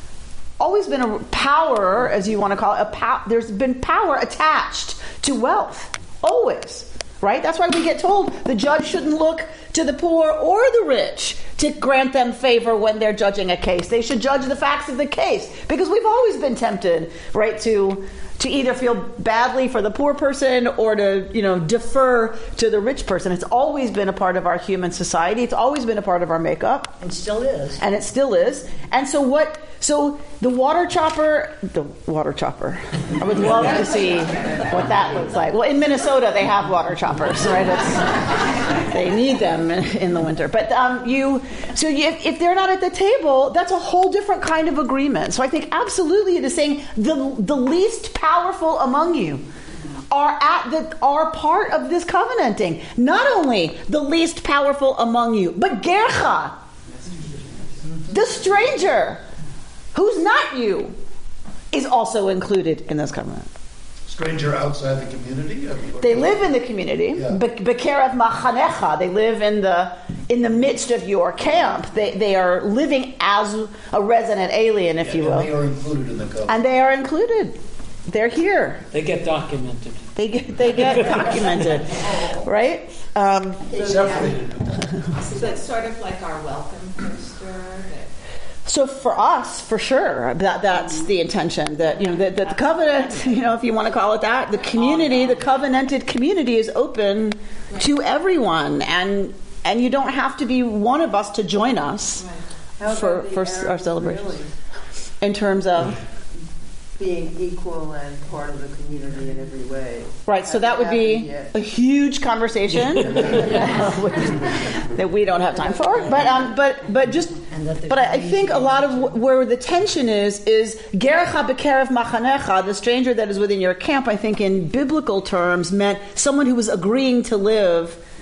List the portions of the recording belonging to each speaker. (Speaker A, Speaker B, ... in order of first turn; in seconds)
Speaker A: 0.6-27.0, 27.8-49.4, 50.1-56.6, 58.1-59.2, 59.9-61.0, 61.7-63.5, 66.0-75.5, 76.5-77.6, 78.1-78.8, 80.2-83.9, 88.7-102.2, 102.9-104.3, 105.2-106.0, 110.3-128.0
Speaker B: 27.0-27.8, 117.5-119.1
Speaker C: 57.0-57.8, 83.8-84.4, 102.8-104.5, 107.0-111.5, 113.3-113.9
Speaker D: 64.1-66.6, 67.1-67.4, 75.0-76.6, 83.7-85.4
Speaker E: 78.9-80.1, 80.8-81.5
Speaker F: 85.3-88.1